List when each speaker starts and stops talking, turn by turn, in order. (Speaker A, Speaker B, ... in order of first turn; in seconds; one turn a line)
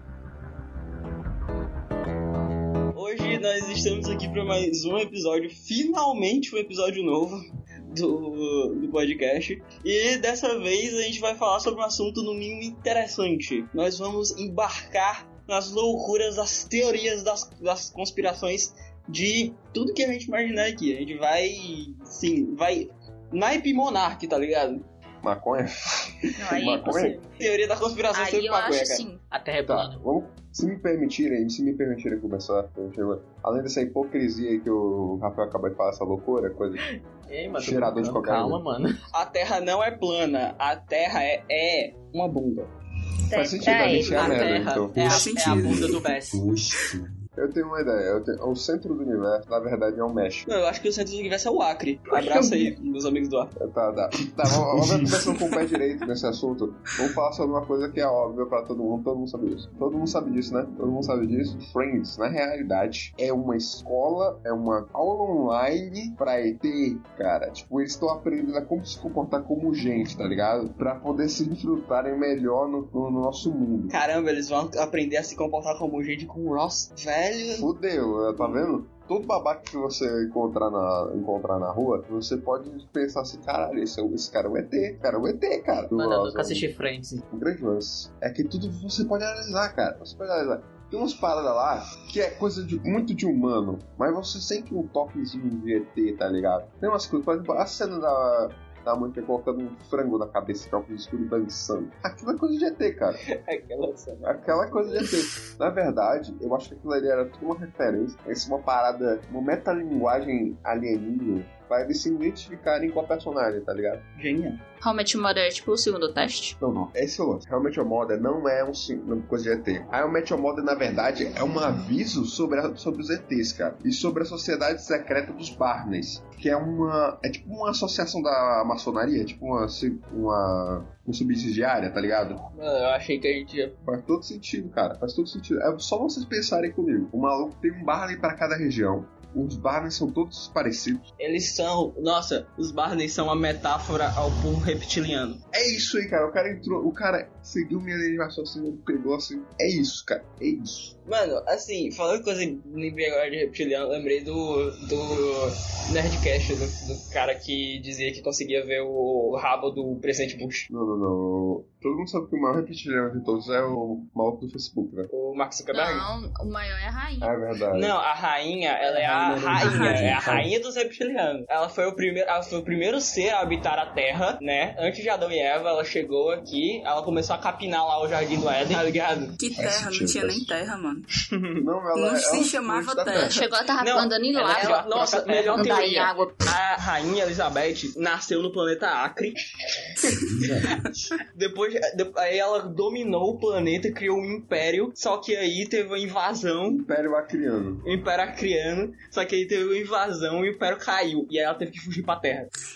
Speaker A: 2.9-24.9
Speaker B: 25.2-27.2
Speaker C: 26.4-27.5
Speaker A: 27.4-29.1
Speaker C: 28.1-29.2
Speaker D: 29.3-30.0
Speaker B: 29.7-36.8
Speaker D: 36.9-39.0
Speaker B: 37.6-38.6
Speaker A: 39.1-42.7
Speaker C: 43.3-44.5
Speaker B: 43.3-45.2
Speaker D: 44.1-46.4
Speaker E: 45.0-47.2
Speaker F: 45.0-46.0
Speaker B: 47.4-50.5
Speaker A: 50.5-53.6
Speaker B: 53.6-74.0
Speaker E: 54.7-55.1
Speaker A: 73.9-77.7
Speaker B: 77.5-86.7
Speaker D: 85.9-87.2
Speaker B: 87.3-103.2
Speaker A: 103.3-105.0
Speaker B: 104.2-114.0
Speaker A: 114.2-114.6
Speaker C: 114.8-116.6
Speaker B: 116.6-132.4
Speaker A: 132.6-133.8
Speaker B: 133.8-141.1
Speaker A: 141.2-145.4
Speaker B: 145.5-150.9
Speaker A: 151.1-160.7
Speaker B: 160.7-165.1
Speaker A: 165.1-166.1
Speaker C: 165.7-167.3
Speaker B: 167.2-167.9
Speaker A: 167.7-179.4
Speaker E: 168.8-170.5
Speaker F: 169.6-170.3
Speaker F: 179.4-181.1
Speaker B: 179.6-180.5
Speaker A: 181.3-181.6
Speaker B: 181.6-183.4
Speaker F: 181.9-183.5
Speaker C: 183.2-186.4
Speaker A: 183.8-190.1
Speaker D: 184.6-185.9
Speaker E: 190.3-191.1
Speaker A: 191.3-196.8
Speaker B: 196.7-197.8
Speaker A: 197.8-202.5